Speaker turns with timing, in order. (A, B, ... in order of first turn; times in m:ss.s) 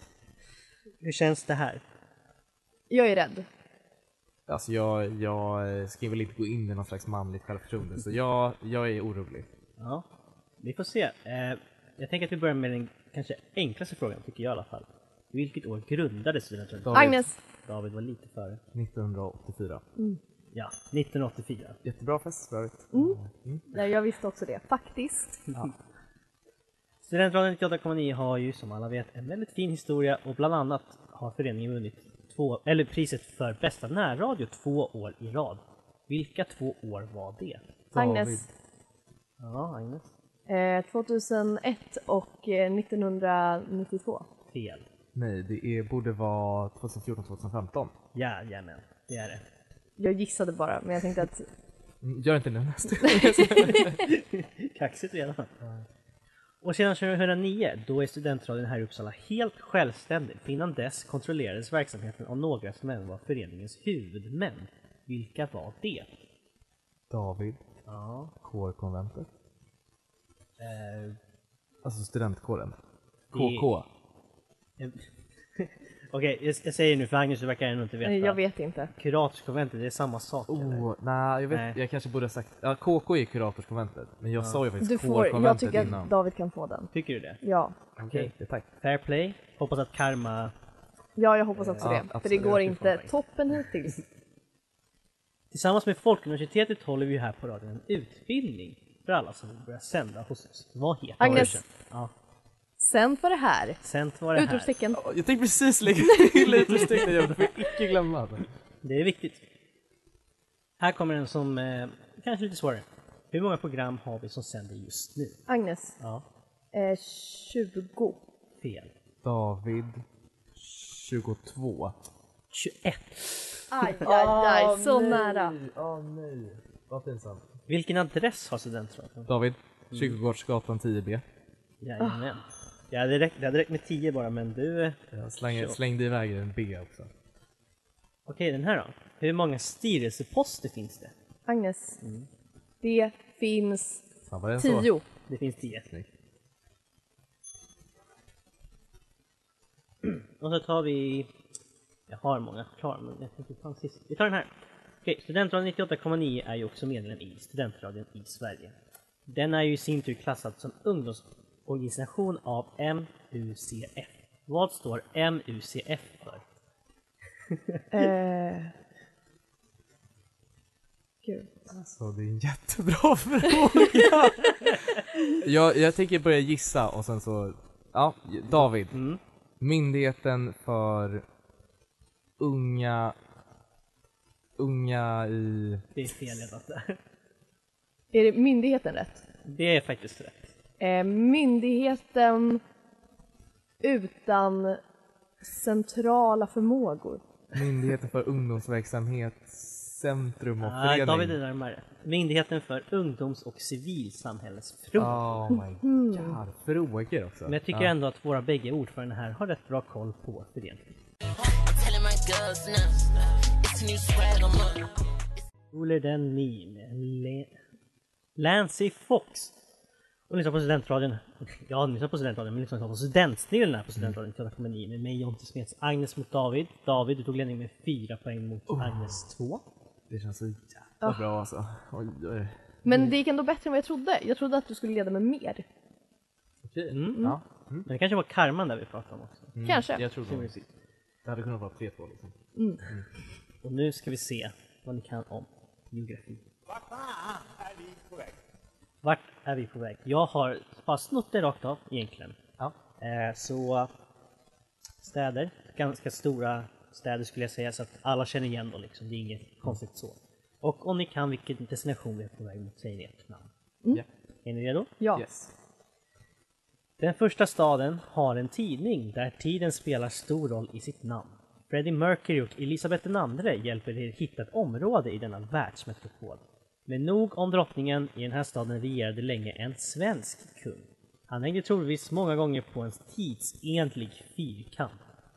0:01.0-0:01.8 A
0:02.9-0:03.5 B
0:04.5-0:09.5 C
0:09.8-0:10.1 A
0:10.6-0:18.6 A
0:16.8-0:17.3 C
0:16.9-0:17.4 B
0:18.7-0:19.8 C
0:20.5-0:21.8 A
0:21.8-0:23.7 C
0:22.9-0:23.2 B
0:23.7-0:25.4 B
0:27.0-0:37.6 A
0:37.9-0:38.5 C
0:38.0-0:38.5 B
0:39.4-0:40.1 A
0:40.5-0:44.3 B
0:44.5-0:44.9 A
0:45.2-0:47.9 C
0:48.1-0:49.4 A
0:50.0-0:51.5 B
0:52.0-0:54.0 C
0:53.6-0:53.8 B
0:54.0-0:55.5 A
0:55.6-0:55.9 C
0:56.6-1:06.1 A
1:07.1-1:07.6 C
1:07.9-1:08.3 A
1:08.4-1:09.3 C
1:10.6-1:11.2 A
1:11.8-1:12.8 C
1:13.3-1:13.9 C
1:13.3-1:13.7 A
1:14.8-1:18.4 A
1:18.0-1:18.9 B
1:18.9-1:20.9 A
1:20.5-1:26.1 C
1:21.5-1:21.8 A
1:24.8-1:26.9 B
1:26.9-1:27.4 A
1:27.4-1:27.8 B
1:28.0-1:28.7 C
1:28.1-1:30.5 A
1:31.2-1:34.0 B
1:31.6-1:33.1 A
1:31.8-1:33.1 C
1:35.5-1:42.1 A
1:41.2-1:41.6 B
1:41.2-1:41.5 C
1:42.8-1:43.8 B
1:43.8-1:44.7 A
1:44.4-1:45.0 B
1:44.9-1:48.5 C
1:46.4-1:46.8 B
1:48.8-1:49.4 A
1:50.8-1:55.4 A
1:55.5-1:56.0 B
1:56.0-1:56.2 A
1:56.7-1:58.2 B
1:58.6-1:58.9 A
1:59.2-2:00.0 C
2:00.6-2:02.0 C
2:02.5-2:04.0 A
2:03.7-2:05.6 B
2:04.0-2:07.5 C
2:07.7-2:09.3 A
2:09.3-2:11.2 C
2:09.9-2:10.2 A
2:11.8-2:15.8 A
2:15.1-2:17.1 C
2:18.3-2:21.1 A
2:21.5-2:22.0 B
2:22.0-2:22.3 A
2:22.8-2:24.0 B
2:24.3-2:24.9 C
2:24.6-2:25.0 B
2:25.3-2:25.9 A
2:30.0-2:31.3 A
2:32.1-2:34.5 A
2:35.0-2:38.8 A
2:39.3-2:46.4 A
2:47.5-2:47.8 A
2:47.9-2:48.7 B
2:51.2-2:51.6 B
2:51.7-2:59.0 C
2:58.9-2:59.2 A
2:59.6-3:01.3 C
3:02.4-3:03.2 C
3:04.6-3:05.8 C
3:06.0-3:07.0 A
3:08.1-3:09.2 B
3:09.4-3:10.5 A
3:10.8-3:12.6 B
3:13.8-3:14.8 B
3:15.4-3:17.2 B
3:17.5-3:21.4 C
3:20.6-3:25.3 A
3:25.0-3:27.9 C
3:25.6-3:26.4 B
3:27.5-3:31.0 A
3:31.6-3:34.9 D
3:35.7-3:37.5 A
3:38.4-3:39.5 A
3:40.3-3:49.6 A
3:48.7-3:49.2 C
3:50.1-3:52.6 C
3:52.8-3:55.7 B
3:56.6-3:57.9 C
3:56.9-3:57.4 A
3:57.9-3:59.6 A
3:59.6-4:00.6 C
3:59.6-4:00.0 B
4:00.1-4:00.7 A
4:01.2-4:03.1 C
4:02.6-4:02.8 B
4:03.6-4:06.5 A
4:09.0-4:12.4 A
4:13.0-4:13.9 A
4:15.0-4:23.5 A
4:24.4-4:24.9 A
4:25.0-4:25.2 B
4:25.1-4:25.5 C
4:27.0-4:45.0 A